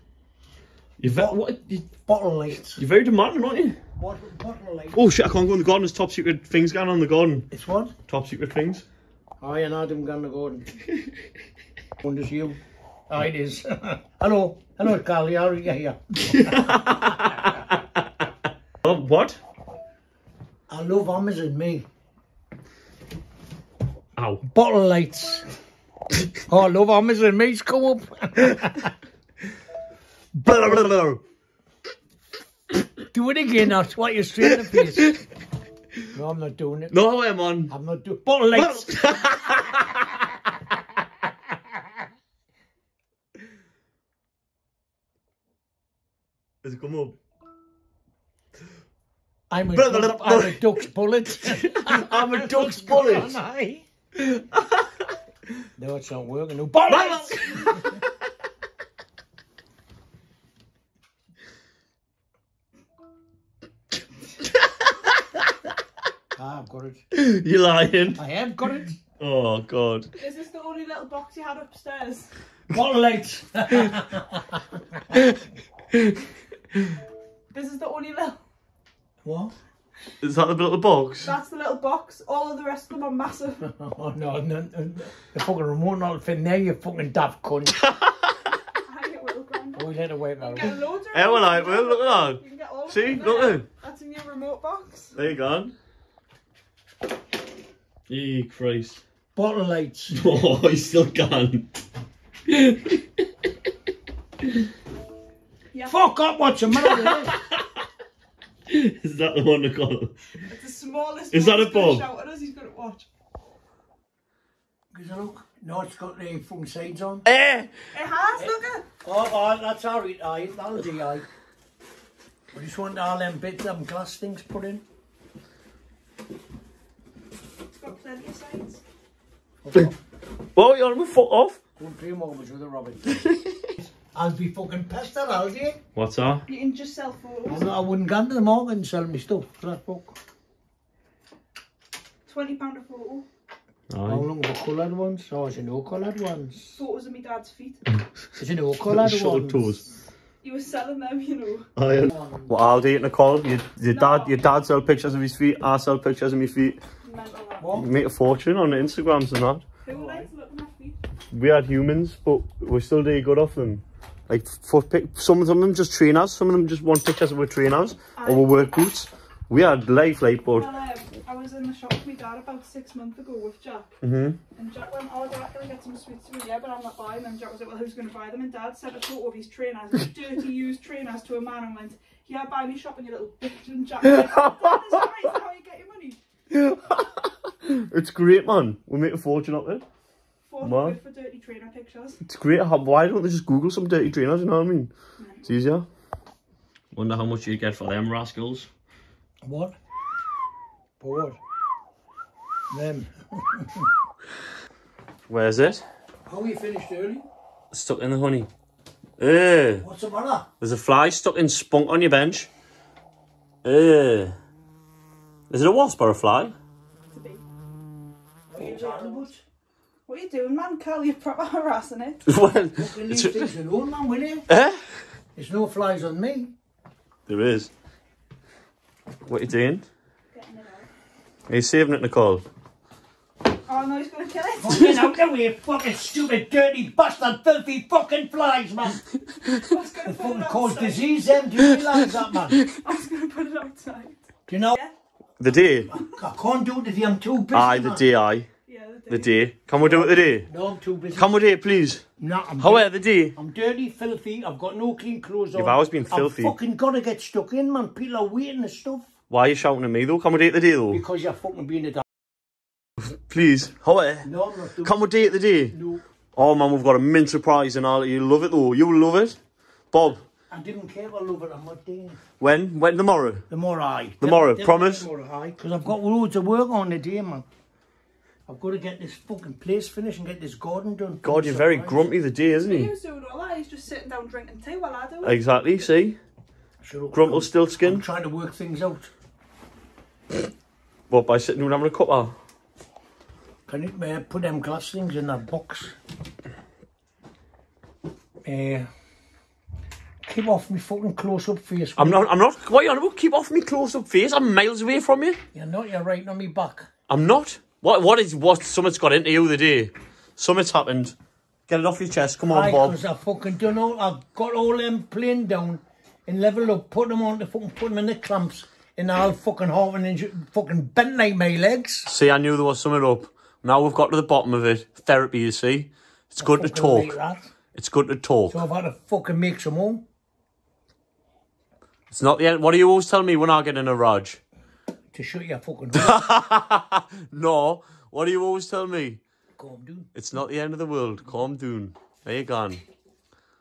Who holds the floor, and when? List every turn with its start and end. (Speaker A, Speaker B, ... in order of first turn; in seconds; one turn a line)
Speaker A: 1.0-1.9
Speaker B: 1.1-1.4
Speaker B: 2.0-2.8
Speaker A: 2.8-3.8
Speaker B: 4.0-5.0
Speaker A: 4.9-7.5
Speaker B: 7.5-7.9
Speaker A: 8.1-8.8
Speaker B: 9.4-10.7
Speaker B: 12.0-12.6
Speaker B: 13.1-16.8
Speaker A: 16.3-18.1
Speaker A: 18.8-19.4
Speaker B: 20.7-21.8
Speaker A: 24.1-24.4
Speaker B: 24.4-25.4
Speaker B: 26.5-28.9
Speaker A: 30.4-31.2
Speaker B: 33.1-35.1
Speaker A: 34.7-35.1
Speaker B: 36.1-36.9
Speaker A: 36.9-37.7
Speaker B: 37.7-39.1
Speaker A: 38.5-40.0
Speaker A: 46.6-47.1
Speaker B: 49.5-53.8
Speaker A: 49.7-50.8
Speaker A: 51.3-53.4
Speaker A: 54.2-54.8
Speaker B: 55.8-57.7
Speaker A: 56.9-58.1
Speaker B: 66.3-67.0
Speaker A: 67.1-68.2
Speaker B: 68.2-69.0
Speaker A: 69.2-70.1
Speaker C: 70.2-72.3
Speaker B: 72.7-75.2
Speaker A: 75.9-76.2
Speaker C: 77.5-78.4
Speaker B: 79.2-79.5
Speaker A: 80.2-81.3
Speaker C: 81.2-83.6
Speaker B: 83.6-87.8
Speaker A: 88.0-88.2
Speaker C: 88.8-95.1
Speaker B: 89.8-90.8
Speaker A: 91.1-93.7
Speaker A: 95.2-95.7
Speaker A: 98.1-99.0
Speaker B: 99.3-100.2
Speaker A: 100.1-101.7
Speaker A: 102.5-103.1
Speaker B: 105.9-107.3
Speaker A: 106.9-107.6
Speaker A: 108.7-110.1
Speaker C: 110.4-113.1
Speaker A: 111.3-112.0
Speaker B: 114.9-117.2
Speaker A: 117.3-117.7
Speaker C: 117.9-118.8
Speaker B: 118.4-121.2
Speaker B: 122.5-124.8
Speaker C: 127.8-128.8
Speaker B: 129.6-129.9
Speaker A: 130.5-131.6
Speaker B: 131.8-133.2
Speaker B: 134.0-135.8
Speaker A: 135.9-136.4
Speaker C: 136.5-137.7
Speaker B: 137.5-140.2
Speaker C: 142.3-143.2
Speaker A: 143.9-144.3
Speaker B: 144.1-146.8
Speaker C: 146.8-147.8
Speaker B: 148.4-149.7
Speaker A: 148.9-149.8
Speaker C: 150.4-151.7
Speaker A: 151.8-156.8
Speaker B: 152.0-152.5
Speaker C: 153.9-154.5
Speaker C: 157.0-157.7
Speaker B: 157.6-157.9
Speaker A: 157.8-159.6
Speaker C: 159.8-161.0
Speaker B: 159.9-160.3
Speaker A: 161.3-170.7
Speaker C: 168.2-168.5
Speaker C: 170.5-173.9
Speaker A: 174.0-174.4
Speaker C: 174.5-186.2
Speaker A: 184.0-185.0
Speaker A: 186.5-189.8
Speaker C: 190.4-192.2
Speaker A: 190.6-191.0
Speaker A: 192.2-194.9
Speaker C: 195.2-195.4
Speaker A: 195.4-195.8
Speaker A: 196.9-198.7
Speaker B: 199.4-199.7
Speaker B: 201.0-201.4
Speaker B: 202.7-203.9
Speaker A: 205.3-205.8
Speaker B: 206.3-207.2
Speaker A: 207.7-208.5
Speaker A: 209.2-209.8
Speaker B: 209.8-210.5
Speaker A: 210.6-212.5
Speaker A: 213.6-214.3
Speaker A: 215.5-216.5
Speaker C: 217.1-217.4
Speaker B: 218.5-219.4
Speaker C: 218.6-219.3
Speaker C: 220.1-222.2
Speaker A: 222.2-223.5
Speaker B: 222.8-224.5
Speaker A: 224.5-225.0
Speaker B: 225.3-226.5
Speaker A: 227.3-227.7
Speaker A: 229.3-229.8
Speaker C: 230.3-230.9
Speaker A: 231.5-232.4
Speaker C: 233.7-234.9
Speaker B: 234.6-239.0
Speaker C: 239.5-241.4
Speaker B: 240.0-242.6
Speaker C: 242.7-244.2
Speaker B: 244.5-244.8
Speaker A: 245.4-245.9
Speaker B: 245.9-248.0
Speaker A: 247.5-248.5
Speaker C: 248.7-249.3
Speaker A: 249.1-250.5
Speaker B: 249.8-251.3
Speaker A: 251.1-252.0
Speaker B: 252.2-259.1
Speaker A: 252.6-253.3
Speaker A: 255.5-256.5
Speaker A: 259.3-261.0
Speaker B: 260.9-262.0
Speaker A: 263.0-264.3
Speaker B: 264.2-266.0
Speaker A: 264.8-265.7
Speaker A: 266.3-269.4
Speaker A: 269.9-270.2
Speaker B: 270.5-272.2
Speaker A: 272.4-273.4
Speaker B: 273.5-277.4
Speaker A: 274.2-275.1
Speaker B: 278.5-282.1
Speaker A: 281.2-282.9
Speaker C: 282.6-285.3
Speaker A: 285.2-286.2
Speaker B: 286.8-289.1
Speaker A: 287.1-288.1
Speaker A: 291.1-292.3
Speaker B: 293.7-295.9
Speaker B: 298.4-298.9
Speaker B: 300.2-302.2
Speaker A: 301.9-305.4
Speaker B: 305.5-306.9
Speaker A: 307.1-311.1
Speaker A: 311.7-313.0
Speaker B: 312.5-322.1
Speaker A: 322.1-327.2
Speaker B: 326.4-327.5
Speaker A: 327.7-328.6
Speaker B: 328.5-330.0
Speaker A: 332.1-334.4
Speaker B: 335.1-336.2
Speaker A: 335.9-339.2
Speaker B: 339.6-340.1
Speaker A: 340.1-342.8